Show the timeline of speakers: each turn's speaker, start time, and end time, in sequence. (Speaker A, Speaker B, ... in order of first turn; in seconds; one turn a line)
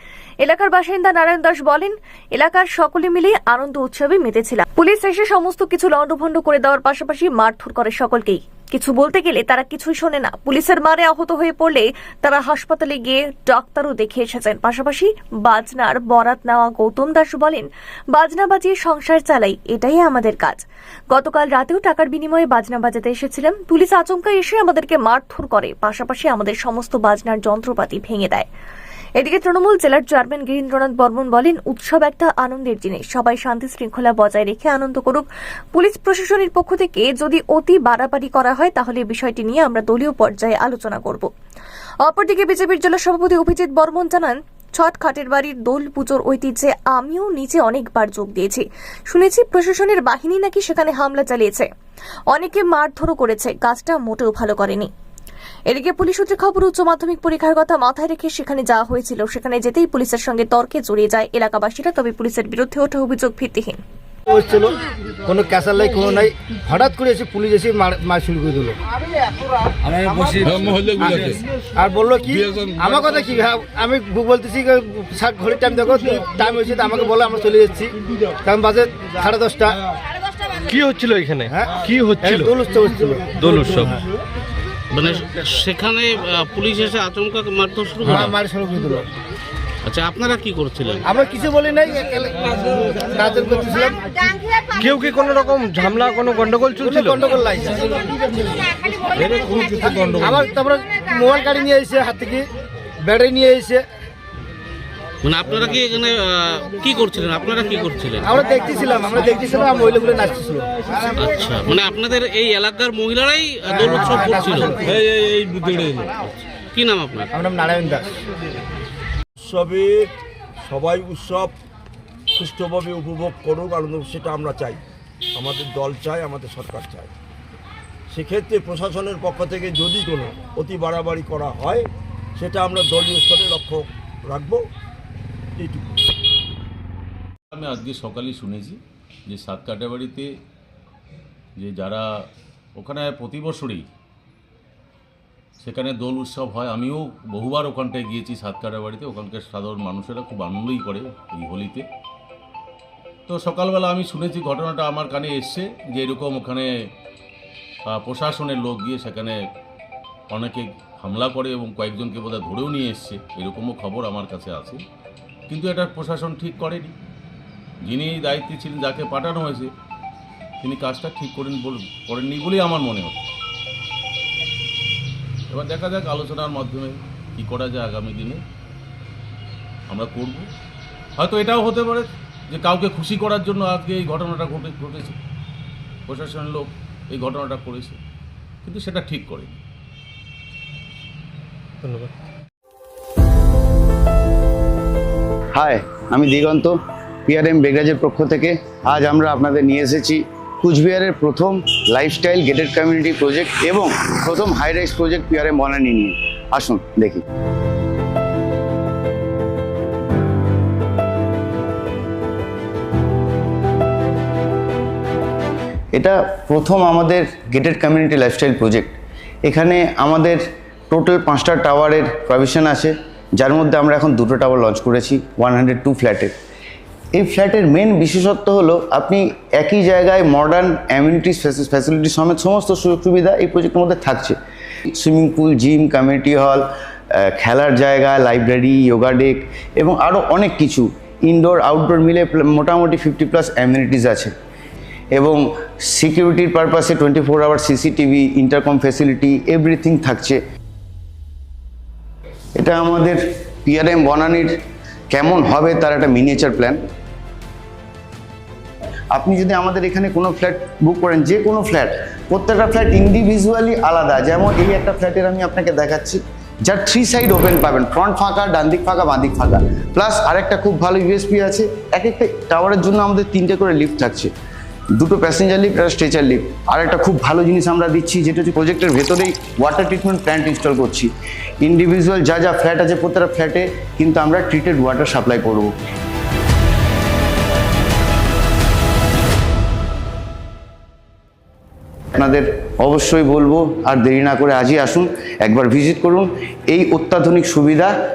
Speaker A: 0.4-28.4
Speaker A: 29.2-41.3
Speaker A: 42.0-51.7
Speaker A: 52.3-54.9
Speaker A: 55.7-63.8
Speaker B: 64.3-68.8
Speaker B: 69.9-79.8
Speaker C: 80.7-82.5
Speaker B: 81.4-83.9
Speaker D: 83.4-83.9
Speaker D: 84.9-88.4
Speaker B: 88.0-89.1
Speaker D: 89.8-91.0
Speaker B: 91.0-94.0
Speaker C: 94.7-97.3
Speaker B: 96.8-98.5
Speaker B: 99.5-102.4
Speaker B: 103.0-103.8
Speaker D: 105.2-108.3
Speaker B: 108.2-110.9
Speaker D: 111.2-117.3
Speaker B: 113.7-115.0
Speaker B: 117.3-118.1
Speaker E: 119.4-120.1
Speaker E: 120.6-121.5
Speaker E: 122.3-124.8
Speaker E: 125.3-127.1
Speaker E: 128.1-134.7
Speaker E: 135.6-136.0
Speaker F: 137.5-140.3
Speaker F: 141.6-142.0
Speaker F: 142.8-143.9
Speaker F: 145.6-151.8
Speaker F: 153.3-156.7
Speaker F: 157.8-159.4
Speaker F: 160.3-164.8
Speaker F: 165.5-166.9
Speaker F: 167.8-169.7
Speaker F: 170.6-173.2
Speaker F: 175.5-178.4
Speaker F: 179.9-180.4
Speaker F: 181.2-185.2
Speaker F: 186.1-188.0
Speaker F: 188.6-189.6
Speaker G: 195.5-207.2
Speaker G: 215.9-218.9
Speaker G: 219.4-226.3
Speaker G: 227.1-234.3
Speaker G: 234.9-244.3
Speaker G: 245.1-250.4
Speaker G: 252.6-254.6
Speaker G: 255.1-256.8
Speaker G: 259.1-274.3
Speaker G: 275.0-285.7
Speaker G: 292.1-297.9